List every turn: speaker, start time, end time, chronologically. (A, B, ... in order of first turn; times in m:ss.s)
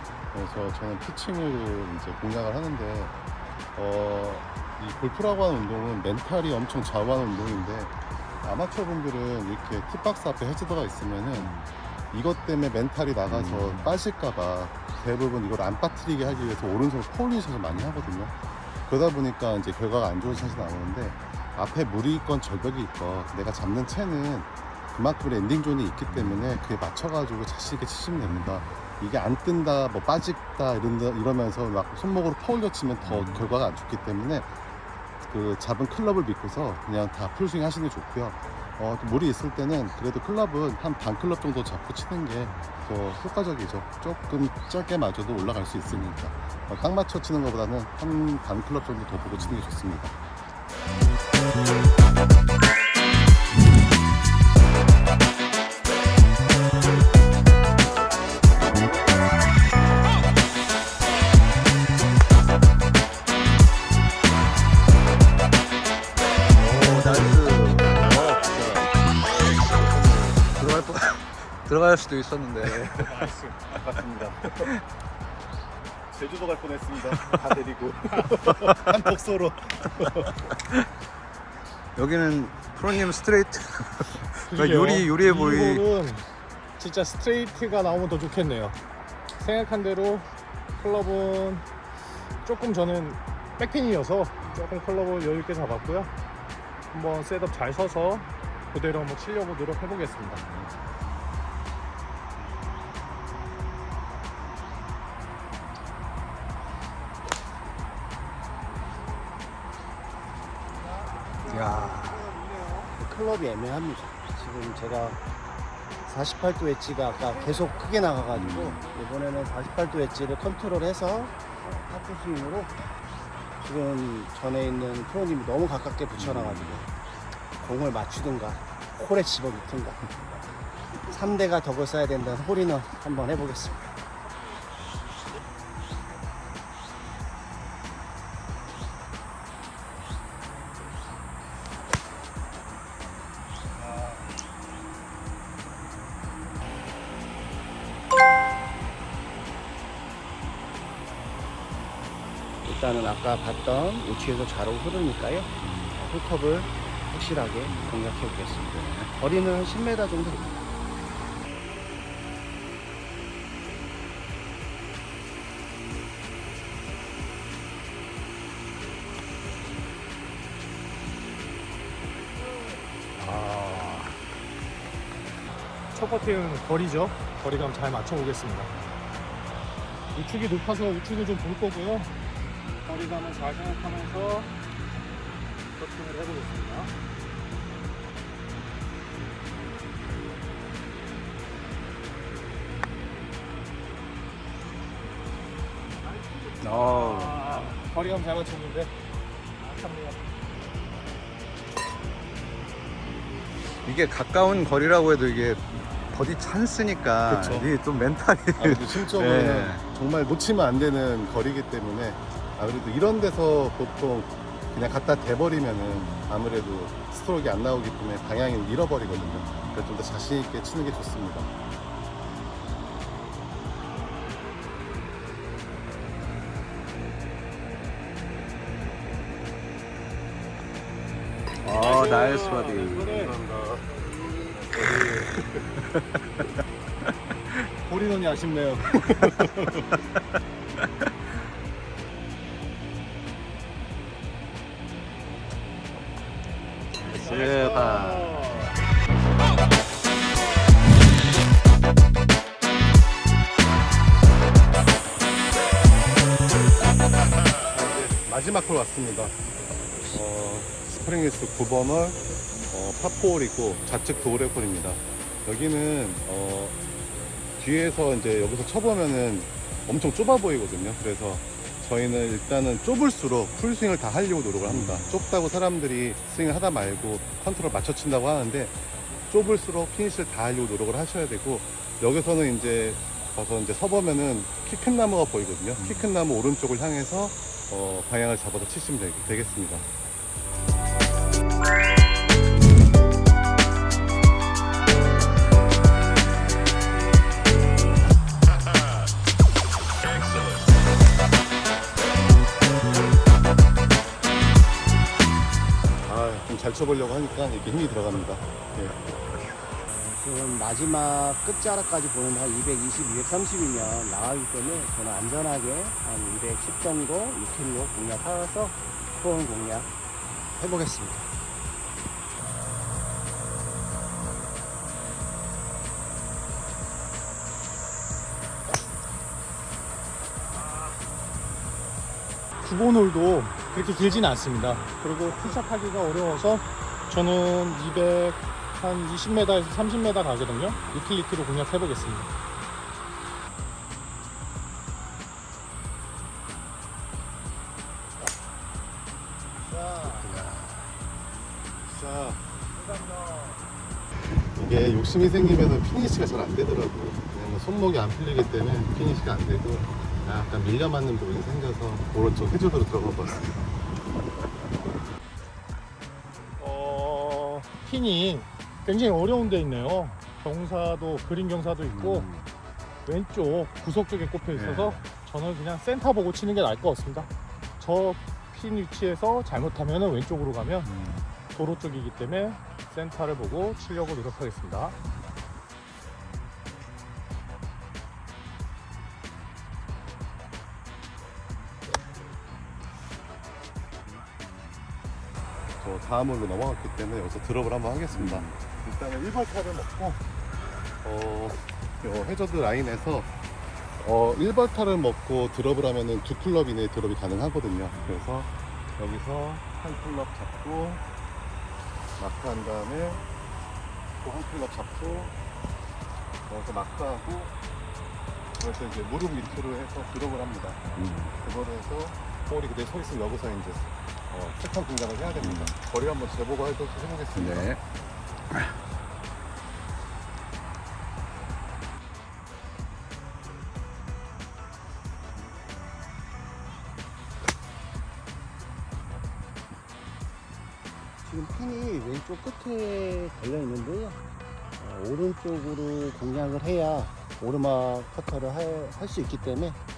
0:00.3-0:03.1 A
0:03.8-0:11.5 A
0:11.4-0:11.6 B
0:12.1-0:18.3 A
0:13.3-0:13.9 B
0:18.9-0:34.5 A
0:35.2-0:50.2 A
1:06.6-1:08.9 B
1:09.6-1:10.5 A
1:10.6-1:13.1 B
1:13.0-1:13.6 C
1:13.7-1:14.7 A
1:16.1-1:20.3 A
1:22.0-1:25.8 B
1:24.5-1:26.2 C
1:26.8-1:28.8 C
1:29.4-1:30.3 C
1:30.8-1:31.6 C
1:32.4-1:36.1 C
1:36.9-1:40.4 C
1:51.2-1:52.8 C
1:51.5-1:52.3 B
1:53.0-1:55.2 D
1:56.0-2:02.7 D
1:58.3-1:58.7 B
2:03.6-2:06.9 D
2:06.3-2:06.7 B
2:07.6-2:10.1 D
2:11.1-2:13.9 D
2:32.6-2:40.6 D
2:38.7-2:39.0 B
2:53.2-2:54.1 B
2:55.9-2:58.7 C
3:00.2-3:02.1 C
3:02.8-3:04.5 C
3:05.8-3:06.9 C
3:16.1-3:18.9 C
3:16.6-3:17.5 B
3:19.6-3:20.2 C
3:23.8-3:29.8 B
3:27.3-3:27.7 C
3:28.6-3:41.5 A
3:51.6-3:53.1 B
3:51.7-3:53.3 C
3:53.0-3:53.8 A
3:54.7-3:55.1 A
3:54.9-3:55.2 B
3:57.9-3:59.7 A
4:07.0-4:08.6 B
4:07.2-4:08.3 C
4:17.7-4:19.4 A
4:19.9-4:20.2 D
4:20.1-4:26.8 A
4:27.6-4:38.8 A
4:39.3-4:49.9 A
5:06.1-5:09.0 A
5:09.9-5:19.9 D
5:20.6-5:21.3 D
5:32.6-5:42.3 C
5:49.6-5:50.3 D
5:50.1-5:50.9 B
5:51.8-5:52.4 A
5:52.8-5:53.6 D
5:54.6-6:03.6 A
6:06.6-6:12.3 C
6:11.9-6:12.3 B
6:13.1-6:17.3 C
6:14.6-6:15.0 B
6:17.8-6:20.9 C
6:20.9-6:21.2 B
6:21.5-6:25.0 C
6:35.8-6:40.2 A
6:38.1-6:38.5 B
6:41.0-6:43.3 A
6:44.0-6:51.0 A
6:52.2-6:53.2 A
6:54.2-6:55.3 A
6:56.5-6:57.5 A
6:58.6-7:00.8 A
7:01.0-7:01.3 B
7:01.4-7:07.8 A
7:05.4-7:05.7 B
7:07.4-7:07.8 B
7:21.2-7:24.2 D
7:24.8-7:29.8 D